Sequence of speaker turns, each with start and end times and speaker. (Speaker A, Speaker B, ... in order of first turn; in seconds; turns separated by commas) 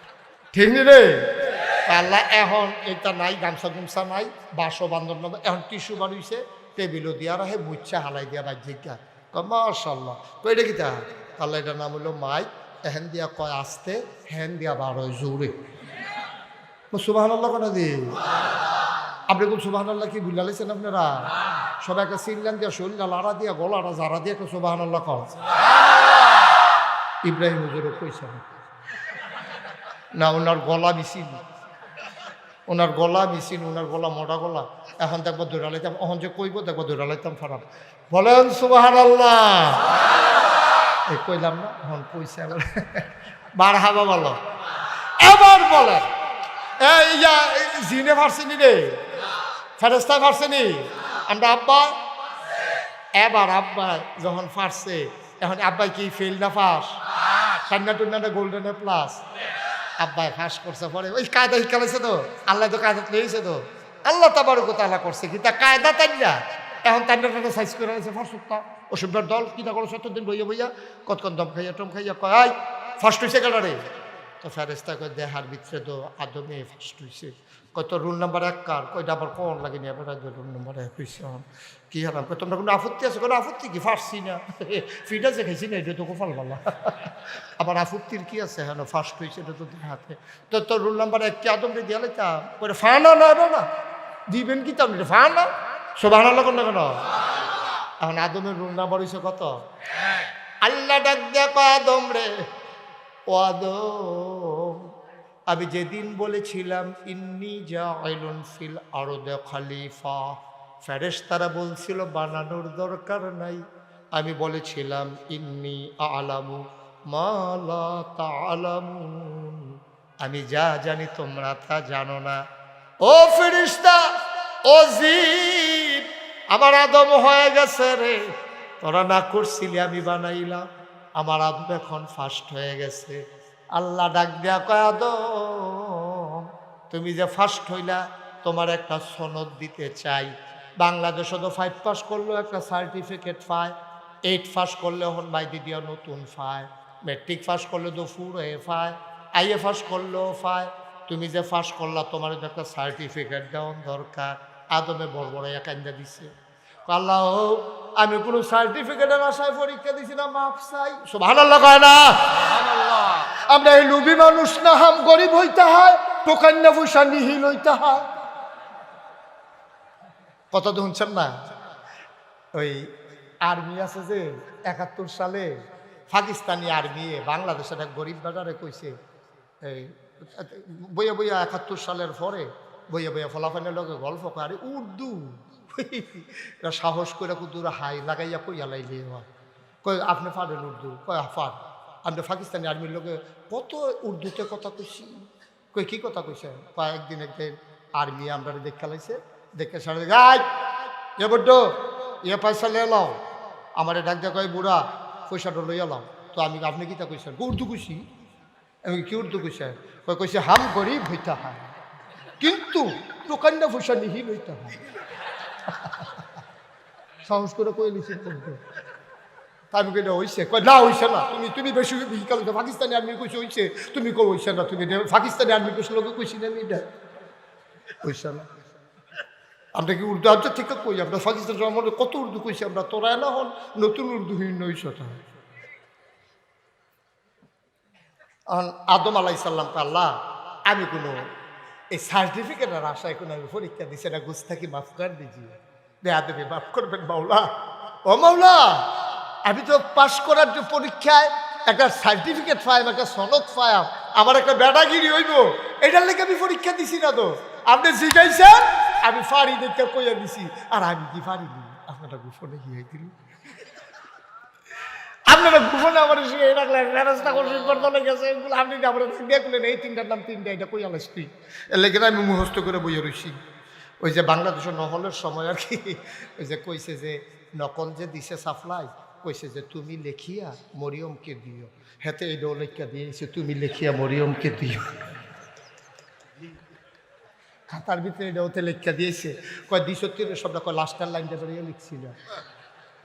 Speaker A: 0.5-15.5, Speaker A: 16.9-18.2, Speaker A: 19.3-25.3, Speaker A: 27.2-28.4, Speaker A: 30.2-31.4, Speaker A: 32.7-39.9, Speaker A: 41.1-44.4, Speaker A: 45.2-46.1, Speaker A: 46.8-49.0, Speaker A: 49.8-52.0, Speaker A: 53.1-59.2, Speaker A: 60.0-73.8, Speaker A: 74.4-93.7, Speaker A: 94.3-97.0, Speaker A: 98.0-99.5, Speaker A: 100.6-102.3, Speaker A: 103.3-104.9, Speaker A: 105.5-113.6, Speaker A: 114.1-122.4, Speaker A: 123.0-124.1, Speaker A: 124.7-128.2, Speaker A: 128.8-130.6, Speaker A: 131.2-133.2, Speaker A: 133.7-143.7, Speaker A: 144.3-156.3, Speaker A: 156.9-168.1, Speaker A: 170.5-171.4, Speaker A: 172.5-172.9, Speaker A: 173.4-178.9, Speaker A: 179.6-189.2, Speaker A: 189.8-200.5, Speaker A: 201.2-203.2, Speaker A: 203.8-208.0, Speaker A: 208.8-211.7, Speaker A: 212.4-214.8, Speaker A: 215.7-216.1, Speaker A: 217.2-218.6, Speaker A: 219.7-226.8, Speaker A: 228.0-228.5, Speaker A: 229.7-235.2, Speaker A: 238.5-241.2, Speaker A: 241.9-247.5, Speaker A: 248.0-248.9, Speaker A: 249.4-263.1, Speaker A: 265.3-273.4, Speaker A: 274.0-284.9, Speaker A: 287.7-292.2